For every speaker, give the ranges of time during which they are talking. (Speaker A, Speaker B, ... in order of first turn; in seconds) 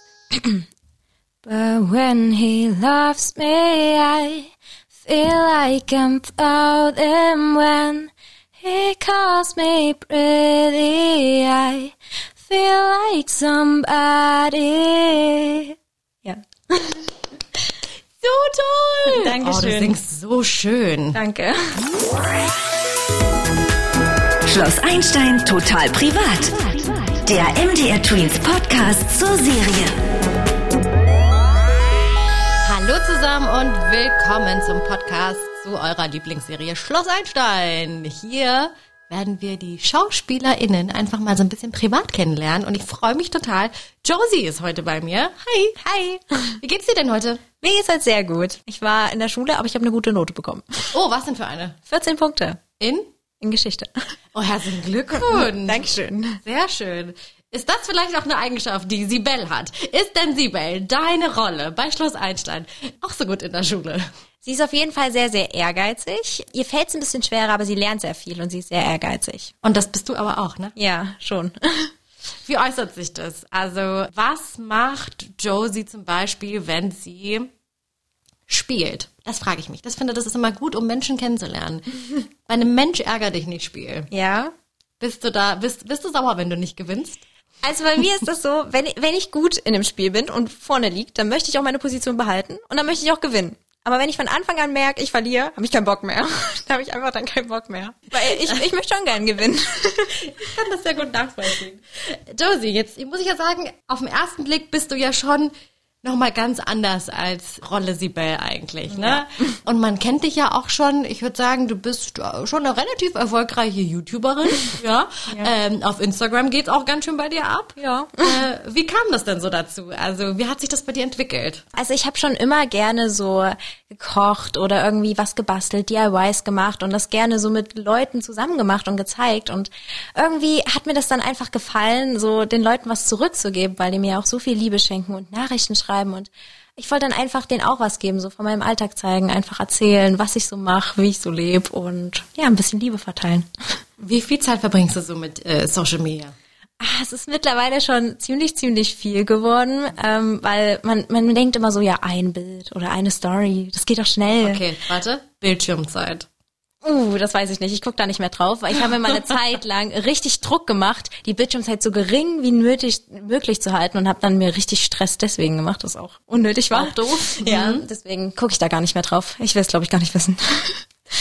Speaker A: 0.3-0.6, 1.4-4.5, 5.0-17.1, 19.0-19.9, 21.1-21.8, 45.8-46.6, 47.6-50.9, 51.9-52.6, 53.4-53.9, 55.1-56.4, 64.4-69.5, 70.8-71.9, 84.1-84.5, 87.6-100.2, 117.8-118.4, 121.7-143.5, 146.8-154.6, 156.8-170.8
Speaker B: 18.2-21.2, 32.6-45.8, 46.6-47.4, 50.9-51.8, 52.8-53.1, 54.3-64.0, 69.6-70.7, 72.4-77.5, 78.5-84.1, 85.0-87.2, 98.3-98.7, 100.3-121.6, 144.0-146.3, 154.3-156.3, 166.7-167.8
Speaker C: 24.5-30.0